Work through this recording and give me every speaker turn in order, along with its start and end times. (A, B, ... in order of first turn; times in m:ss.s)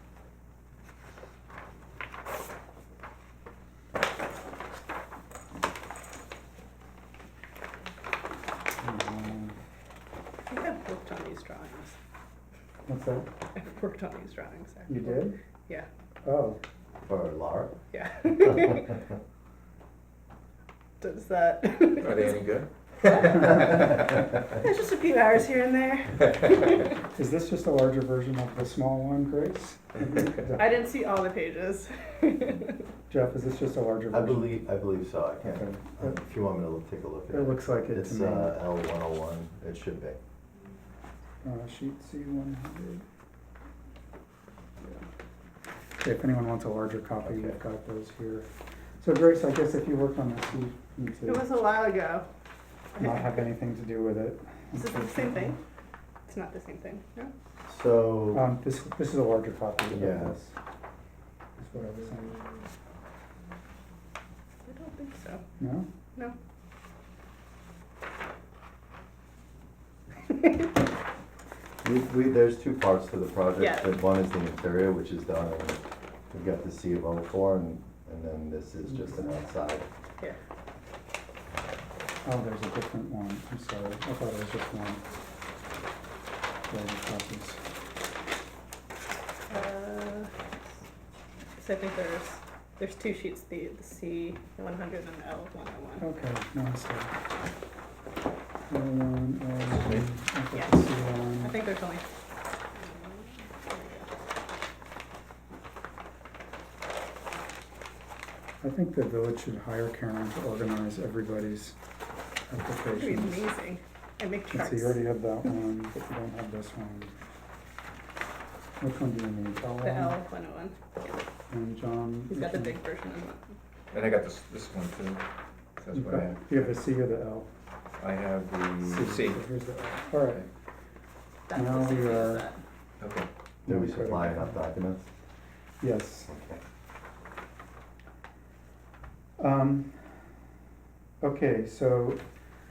0:08.8-0:09.5 A
0:10.5-0:12.0 B
0:12.9-0:13.3 A
0:13.6-0:15.8 B
0:14.9-0:15.4 A
0:16.2-0:16.6 A
0:17.0-0:17.7 C
0:17.9-0:19.0 B
0:21.0-0:22.3 B
0:22.0-0:23.6 D
0:23.2-0:27.0 B
0:27.1-0:30.8 A
0:30.5-0:32.8 B
0:33.1-0:34.6 A
0:34.1-0:40.2 C
0:35.4-0:36.2 A
0:37.3-0:38.6 A
0:41.4-0:43.0 A
0:46.0-0:48.5 A
0:47.2-0:47.6 C
0:49.0-0:51.4 A
0:51.2-0:52.2 B
0:52.9-0:53.4 B
0:53.0-0:55.6 A
0:54.7-0:55.6 B
0:56.3-0:57.3 B
0:57.6-0:58.5 C
0:58.3-1:00.5 A
0:59.9-1:00.3 C
1:01.6-1:02.4 A
1:04.6-1:05.4 B
1:05.6-1:05.9 A
1:11.8-1:19.9 C
1:13.6-1:13.9 B
1:18.9-1:19.4 A
1:22.2-1:25.0 A
1:26.7-1:27.6 A
1:29.5-1:30.3 B
1:31.6-1:36.0 B
1:36.0-1:37.1 A
1:38.7-1:41.6 A
1:39.8-1:40.0 D
1:40.5-1:42.0 B
1:42.8-1:44.1 B
1:48.6-1:51.7 A
1:52.5-1:53.5 A
1:52.9-1:55.0 B
1:54.5-1:57.2 A
1:58.8-2:00.2 A
1:59.8-2:00.8 B
2:01.5-2:02.8 A
2:02.3-2:03.5 B
2:03.9-2:05.2 D
2:05.8-2:06.6 D
2:05.9-2:07.5 A
2:08.0-2:09.4 D
2:08.8-2:10.4 A
2:11.5-2:12.6 B
2:11.5-2:12.5 A
2:13.0-2:13.3 D
2:13.6-2:14.6 A
2:13.6-2:15.1 C
2:15.8-2:16.3 A
2:16.3-2:16.6 C
2:19.4-2:20.0 A
2:21.2-2:22.2 A